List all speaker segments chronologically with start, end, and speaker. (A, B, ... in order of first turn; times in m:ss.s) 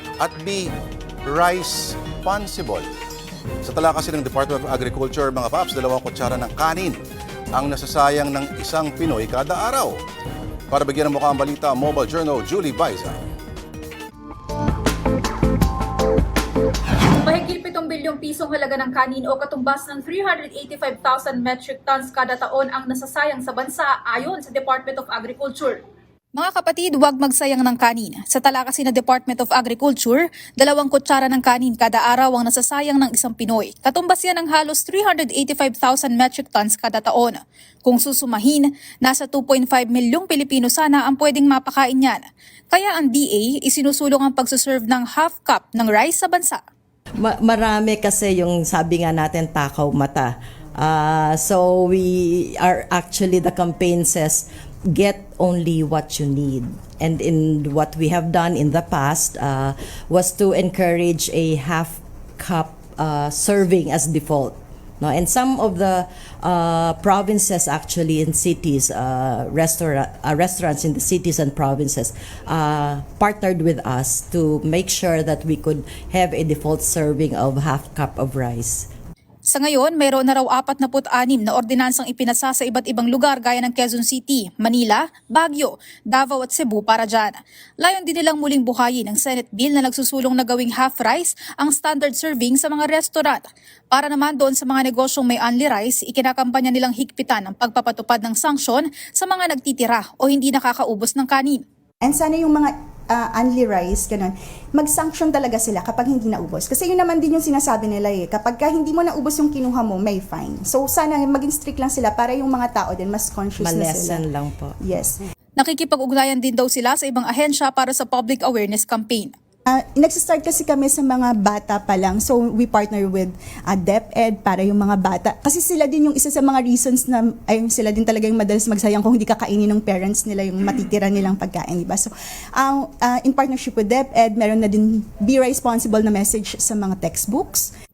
0:00.2-0:00.7 A
0:01.3-0:02.8 A
0:03.6-0:07.0 A
0:07.5-0:09.9 A
0:10.7-0:13.2 A
0:17.1-0:25.8 B
0:26.3-0:42.2 B
0:42.7-0:46.6 B
0:47.2-1:18.9 C
1:19.4-1:41.6 B
1:42.0-1:54.2 D
1:53.6-1:54.8 C
1:54.8-1:55.2 D
1:55.6-1:59.3 B
1:59.7-2:17.7 D